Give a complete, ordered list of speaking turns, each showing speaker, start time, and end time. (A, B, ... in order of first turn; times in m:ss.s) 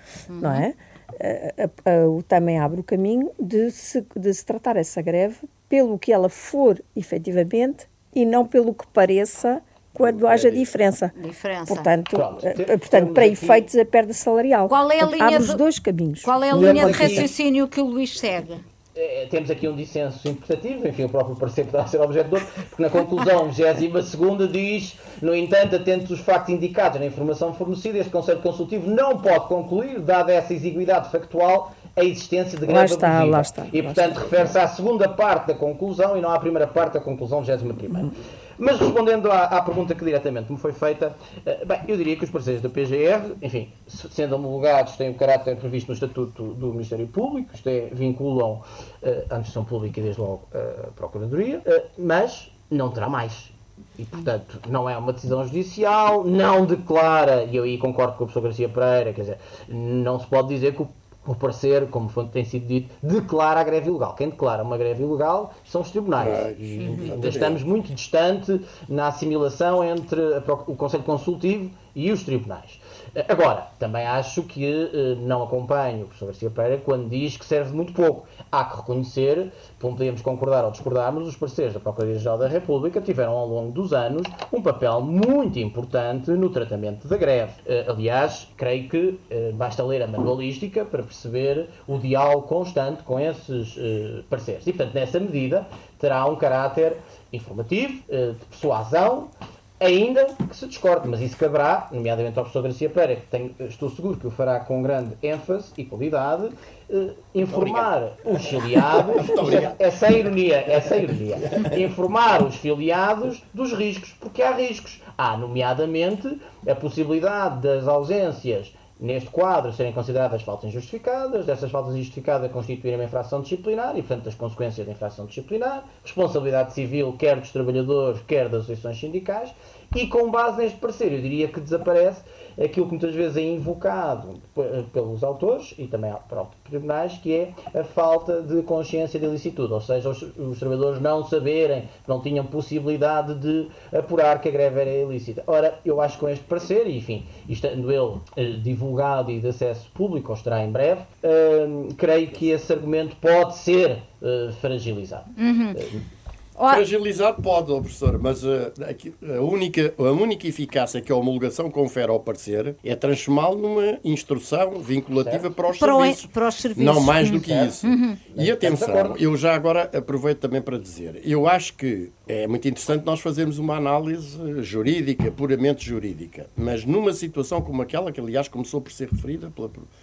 0:00.3-0:00.6 A
0:00.4-0:11.1 B
0:11.1-0:11.9 A
0:11.6-0:17.3 B
0:12.1-0:13.7 C
0:14.7-0:15.6 A
0:16.2-0:18.6 A
0:16.5-0:17.3 C
0:18.9-2:36.0 C
0:32.6-0:34.3 B
1:06.1-1:07.6 D
1:06.8-1:07.1 A
1:47.5-1:49.8 D
1:51.4-1:51.8 D
2:35.4-2:35.8 A
2:36.6-2:36.8 A
2:36.7-2:59.9 D
2:45.2-2:45.5 C
2:45.7-2:48.2 A
2:47.3-2:47.8 C
2:48.3-2:49.2 C